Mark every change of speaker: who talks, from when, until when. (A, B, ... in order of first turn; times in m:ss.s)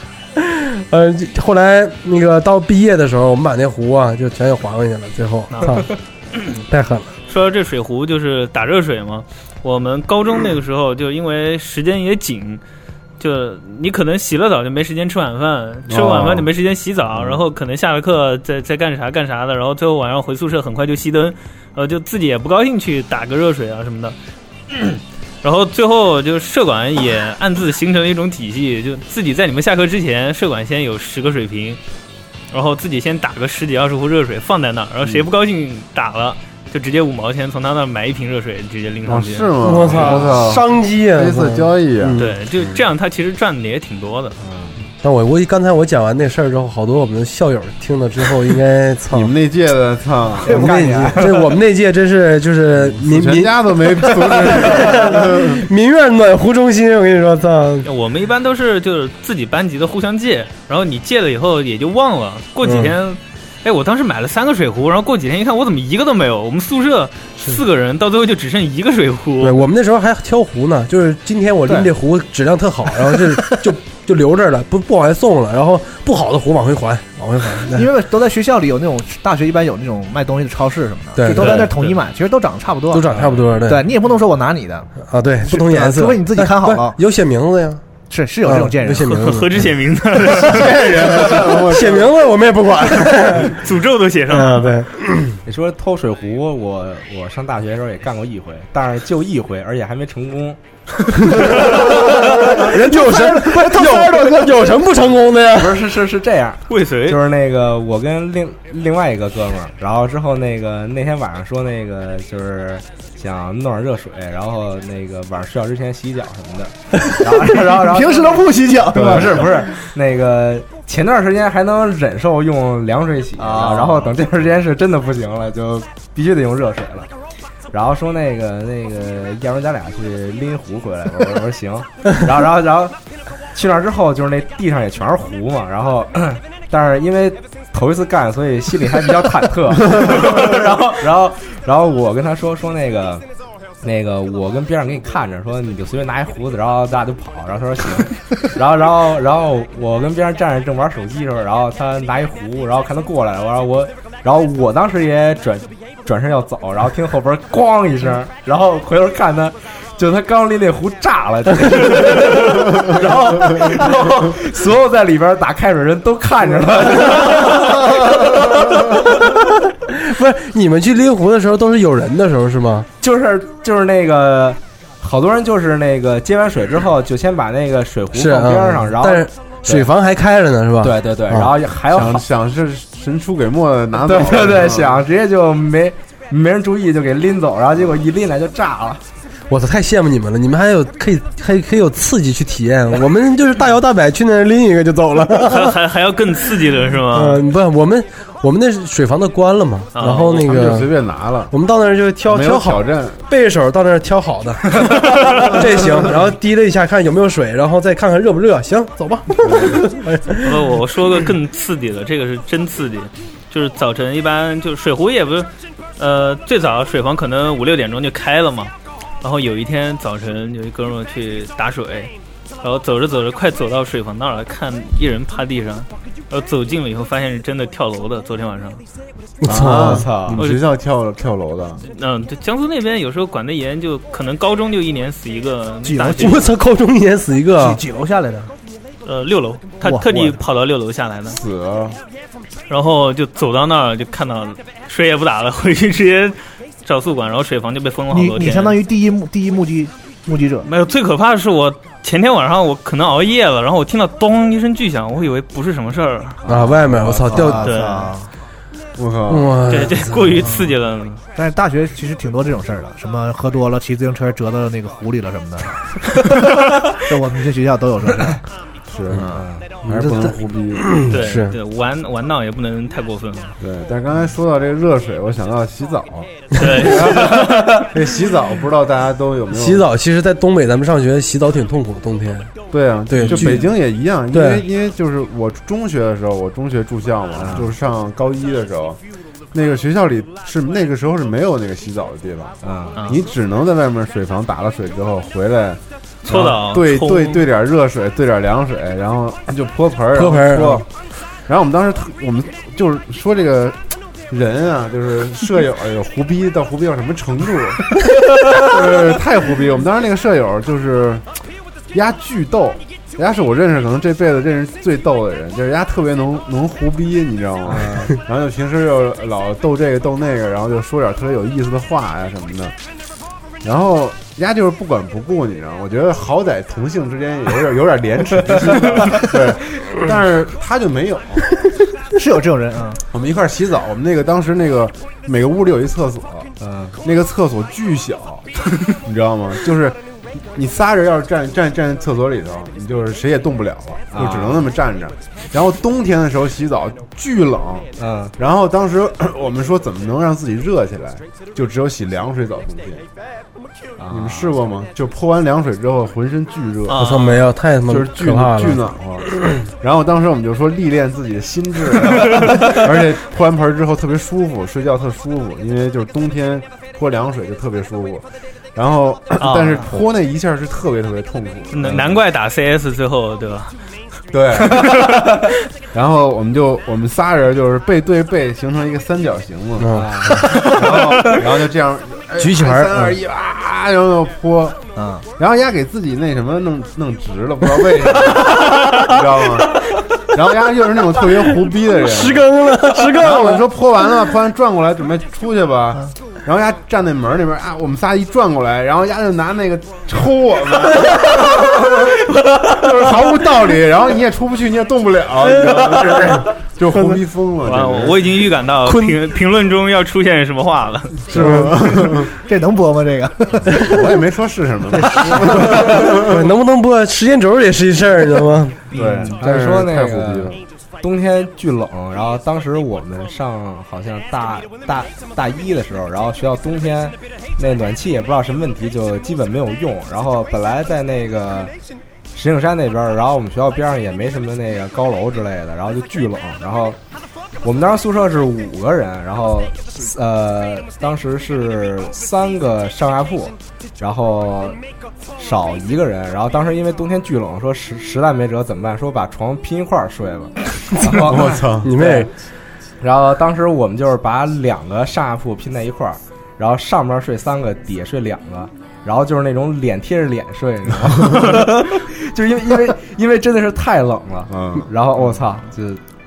0:00.4-0:05.9 A
0:06.7-0:07.1 A
0:07.3-0:12.6 B
0:13.2-0:24.2 B
0:15.9-0:16.5 C
0:24.7-0:31.8 B
0:32.5-0:40.3 B
0:39.0-0:42.7 C
0:39.6-0:42.3 A
0:42.2-0:44.4 B
0:44.4-0:44.7 D
0:45.0-0:49.3 A
0:49.1-0:50.7 C
0:50.4-0:51.6 D
0:50.5-0:57.9 A
0:52.8-0:55.6 C
0:57.8-1:09.5 B
1:02.6-1:02.9 A
1:09.4-1:17.8 A
1:17.7-1:23.1 E
1:21.2-1:21.7 A
1:22.9-1:23.8 A
1:23.6-1:24.9 E
1:25.0-1:27.8 A
1:25.4-1:27.0 E
1:28.1-1:29.2 E
1:28.4-1:29.5 A
1:29.0-1:31.1 B
1:30.3-1:32.2 C
1:31.6-1:33.6 A
1:33.5-1:34.8 B
1:34.3-1:35.4 A
1:35.4-1:40.6 D
1:41.3-1:45.8 A
1:41.5-1:44.8 E
1:45.5-2:07.1 D
1:46.7-1:47.2 B
1:57.5-1:59.5 E
1:58.9-1:59.6 C
2:03.4-2:04.2 E
2:07.7-2:13.0 D
2:13.5-2:23.2 D
2:23.8-2:48.8 D
2:49.9-2:52.9 A
2:53.0-2:59.9 D
2:58.1-3:01.5 A
3:00.8-3:02.2 D
3:01.9-3:05.0 C
3:04.0-3:09.0 D
3:09.5-3:15.7 A
3:15.4-3:17.4 B
3:17.1-3:20.9 A
3:19.9-3:20.5 B
3:20.0-3:21.5 C
3:21.5-3:30.5 A
3:22.2-3:23.2 C
3:29.4-3:29.8 C
3:30.4-3:48.8 B
3:49.4-3:50.1 A
3:49.5-3:51.8 C
3:49.7-3:50.4 D
3:51.9-3:56.5 B
3:55.8-3:56.5 E
3:56.2-3:57.8 A
3:57.6-3:58.5 E
3:59.0-4:01.4 B
3:59.8-4:00.4 E
4:01.3-4:02.0 C
4:02.7-4:08.8 B
4:08.1-4:10.7 E
4:10.6-4:16.4 B
4:16.4-4:17.2 D
4:16.5-4:17.7 A
4:17.2-4:18.3 E
4:17.6-4:18.1 B
4:19.0-4:19.6 C
4:19.3-4:20.4 A
4:19.7-4:21.2 B
4:21.3-4:28.4 E
4:28.9-4:29.3 C
4:29.2-4:29.4 E
4:29.3-4:29.7 D
4:29.8-4:31.0 C
4:29.9-4:31.5 A
4:31.1-4:33.5 B
4:33.6-4:39.8 C
4:36.6-4:37.8 B
4:39.5-4:42.5 A
4:42.7-4:49.0 C
4:43.1-4:43.6 A
4:44.3-4:44.6 A
4:47.4-4:47.7 D
4:49.5-5:00.9 C
4:52.6-4:53.0 D
4:56.3-4:57.4 B
5:00.1-5:00.8 A
5:01.5-5:08.0 C
5:08.5-5:11.2 C
5:11.9-5:22.7 C
5:17.7-5:18.2 D
5:23.6-5:31.4 C
5:32.1-5:33.0 E
5:33.1-5:53.0 C
5:36.6-5:37.0 D
5:44.1-5:44.6 D
5:48.0-5:48.3 D
5:54.0-5:54.5 D
5:54.1-5:57.1 C
5:56.9-5:57.5 B
5:57.0-5:58.8 A
5:57.8-6:12.1 C
6:09.4-6:09.9 B
6:11.7-6:13.7 B
6:14.3-6:15.0 C
6:14.6-6:15.5 B
6:15.9-6:24.8 C
6:19.8-6:20.6 A
6:19.9-6:20.8 D
6:22.4-6:23.2 A
6:25.0-6:25.2 E
6:25.4-6:48.5 C
6:32.0-6:33.7 A
6:46.9-6:47.2 A
6:47.6-6:51.3 B
6:48.8-6:49.2 A
6:51.3-6:52.3 C
6:51.3-6:51.7 A
6:52.4-6:54.0 E
6:53.7-6:56.5 C
6:55.0-6:55.8 E
6:56.1-6:58.8 A
6:58.9-6:59.3 B
6:58.9-7:00.6 C
6:59.4-7:11.7 D
7:12.3-7:17.0 D
7:17.6-7:24.8 D
7:25.4-7:32.3 D
7:31.1-7:31.9 C
7:31.8-7:32.3 A
7:33.0-7:46.0 D
7:44.5-7:44.9 C